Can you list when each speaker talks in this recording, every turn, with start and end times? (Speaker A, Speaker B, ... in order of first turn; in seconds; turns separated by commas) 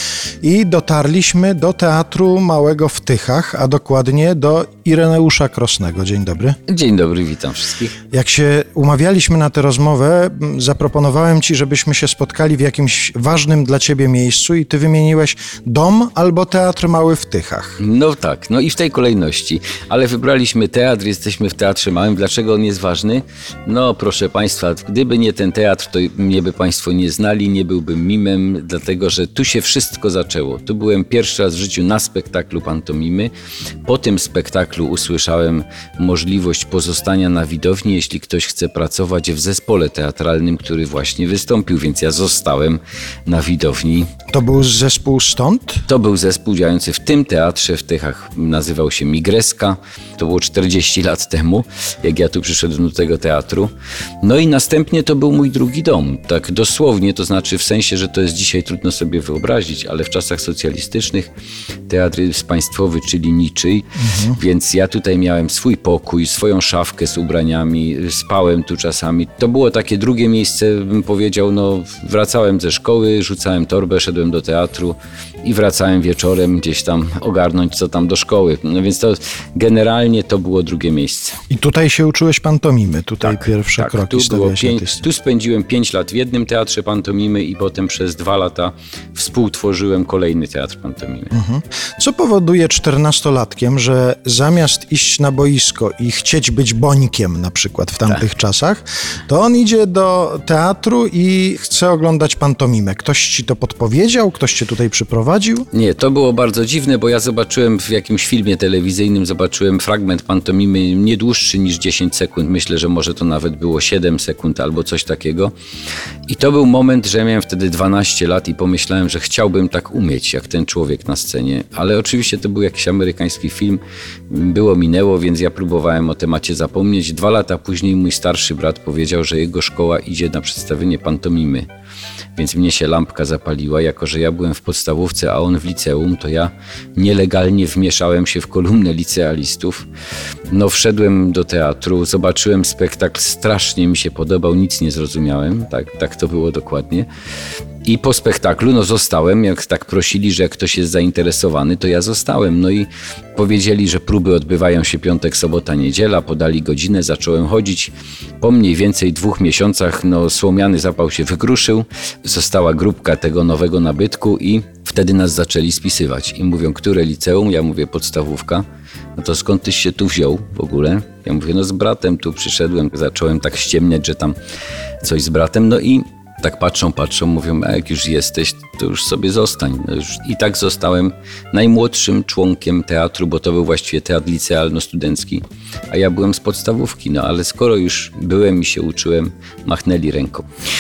Speaker A: 0.4-6.6, Speaker B: 6.7-7.9, Speaker A: 8.1-17.8, Speaker B: 17.8-33.3, Speaker B: 33.9-44.1, Speaker A: 44.3-45.9, Speaker B: 45.9-53.7, Speaker B: 54.2-61.3, Speaker B: 61.9-81.4, Speaker A: 64.0-64.4, Speaker A: 81.5-85.0, Speaker B: 83.2-91.3, Speaker A: 91.3-105.7, Speaker B: 105.7-115.5, Speaker B: 116.3-131.7, Speaker B: 132.4-139.9, Speaker B: 140.5-147.1, Speaker B: 147.8-168.7, Speaker B: 169.2-174.4, Speaker B: 175.0-190.5